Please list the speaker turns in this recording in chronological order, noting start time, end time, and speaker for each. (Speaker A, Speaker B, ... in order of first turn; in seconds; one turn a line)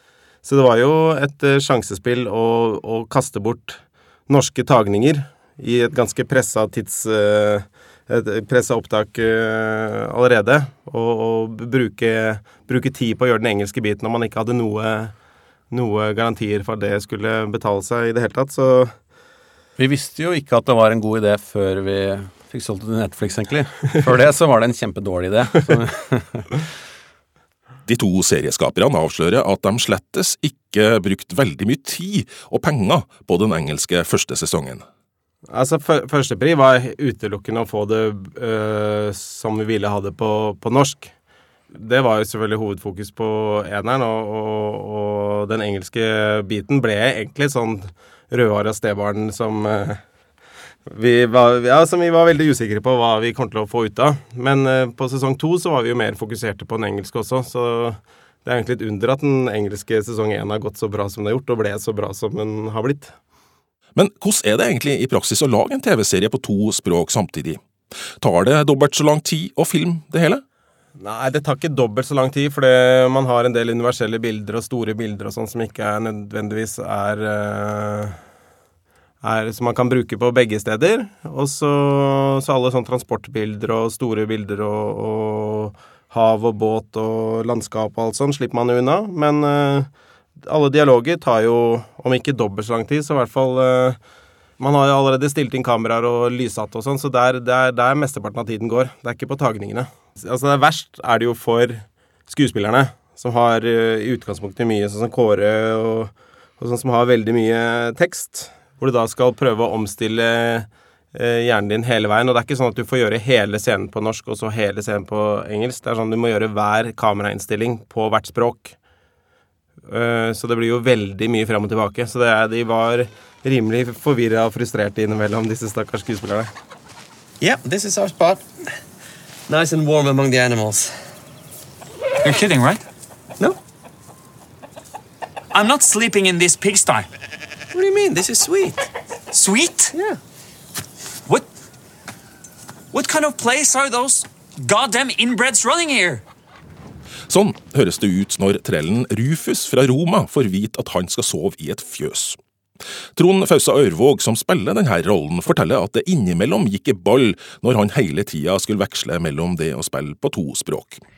Speaker A: 0.4-15.2
Speaker A: 15.7-18.9
Speaker B: 19.8-26.5
Speaker C: 27.9-34.8
Speaker A: 35.5-41.1
Speaker A: 41.7-50.0
Speaker A: 50.9-63.1
Speaker C: 63.9-67.6
Speaker C: 68.2-70.4
Speaker A: 71.0-78.2
Speaker A: 79.2-94.0
Speaker A: 94.6-118.8
Speaker A: 119.8-126.5
Speaker D: 127.4-128.5
Speaker D: 129.5-130.9
Speaker E: 132.2-132.8
Speaker E: 135.5-137.1
Speaker D: 137.7-138.8
Speaker E: 139.3-139.9
Speaker E: 142.9-146.2
Speaker C: 147.3-152.4
Speaker C: 153.2-161.0